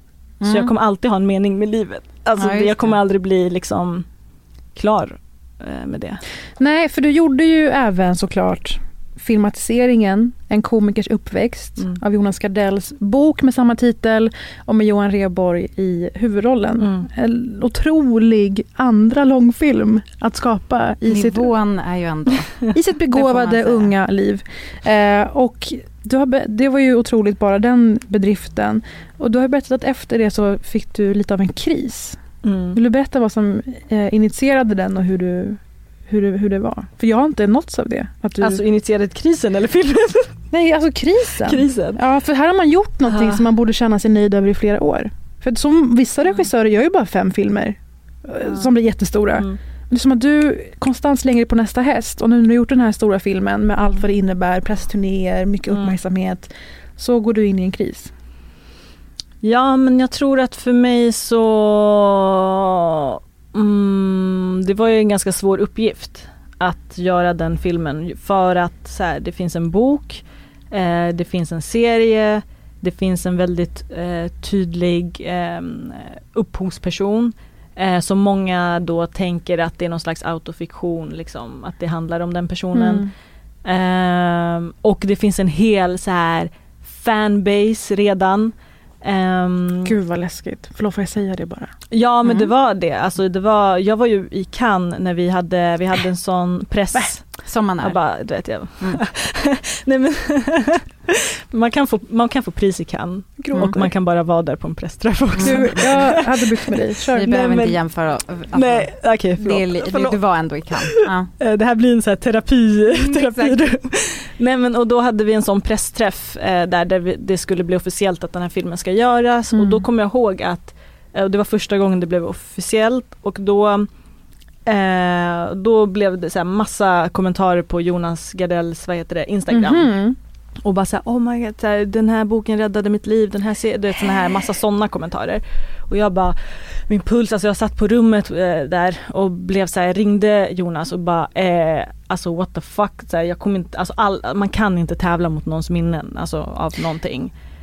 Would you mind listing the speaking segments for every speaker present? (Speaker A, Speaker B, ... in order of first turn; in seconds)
Speaker A: 0.4-0.7, 2.4-3.0, 21.1-22.6, 23.1-23.9, 92.2-92.5, 97.4-98.0, 105.3-106.1, 107.1-111.3, 112.9-113.8
Speaker B: 0.4-4.1, 4.8-6.2, 16.8-17.1, 32.4-32.8, 38.4-40.3, 41.5-42.0, 43.1-43.4, 48.4-48.7, 55.7-56.0, 59.4-83.1, 83.7-90.0, 91.9-97.3, 97.8-107.8, 108.5-110.2, 110.9-123.9, 124.7-129.9, 130.7-136.4, 136.9-147.3
Speaker C: 6.6-21.5, 22.7-32.2, 32.8-38.6, 40.5-58.1, 82.7-83.1, 89.8-91.7, 103.4-103.9, 105.4-107.2, 119.6-119.8, 129.5-130.2